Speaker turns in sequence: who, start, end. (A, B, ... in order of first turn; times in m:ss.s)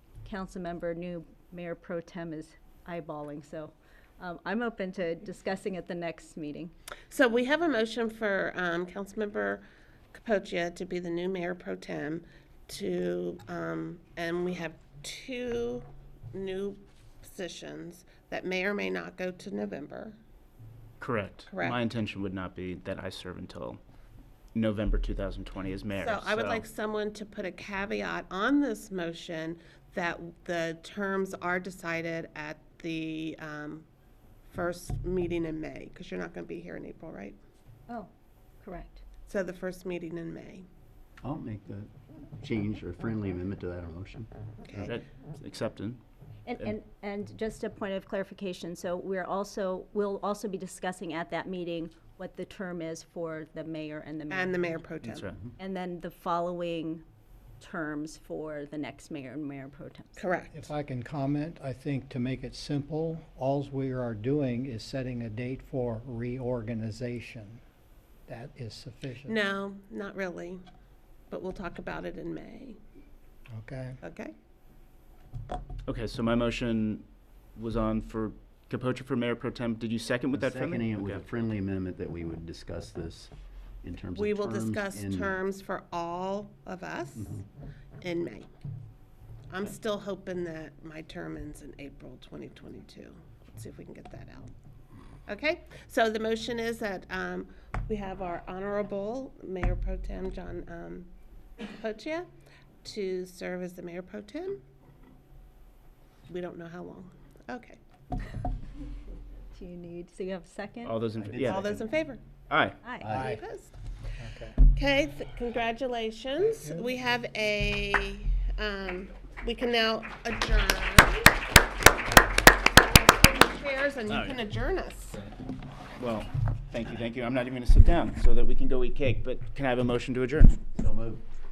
0:00.2-0:06.7 A
0:07.1-0:20.2 B
0:21.0-0:23.8 C
0:21.5-0:21.8 B
0:24.6-0:26.6 C
0:26.0-0:33.9 B
0:34.4-0:37.4 B
0:38.6-0:39.0 A
0:39.3-0:40.7 B
0:41.2-0:44.9 D
0:44.6-0:44.9 B
0:44.8-0:46.0 C
0:46.5-0:54.7 A
0:54.3-0:55.3 B
0:55.0-0:55.4 C
0:55.6-0:57.0 A
0:57.6-1:00.2 A
1:00.2-1:00.7 B
1:00.5-1:07.6 E
1:08.3-1:09.3 E
1:09.3-1:10.6 B
1:11.3-1:12.8 B
1:13.5-1:14.0 E
1:14.0-1:14.3 B
1:15.9-1:21.2 C
1:20.3-1:23.3 D
1:23.8-1:25.4 D
1:24.2-1:27.4 B
1:28.0-1:28.5 B
1:29.5-1:34.5 B
1:35.3-1:41.1 B
1:41.6-1:42.3 B
1:42.8-1:44.6 B
1:46.3-1:47.8 B
1:49.6-1:51.0 A
1:50.8-1:51.8 C
1:51.2-1:51.7 D
1:51.5-1:52.2 B
1:52.5-1:52.8 C
1:52.8-1:53.2 A
1:53.0-1:53.3 D
1:53.1-1:53.7 B
1:53.1-1:53.4 E
1:54.2-1:54.6 E
1:54.7-2:01.4 B
1:56.5-1:57.0 E
2:02.8-2:05.2 B
2:04.1-2:04.4 C
2:06.0-2:10.6 C
2:10.8-2:11.2 D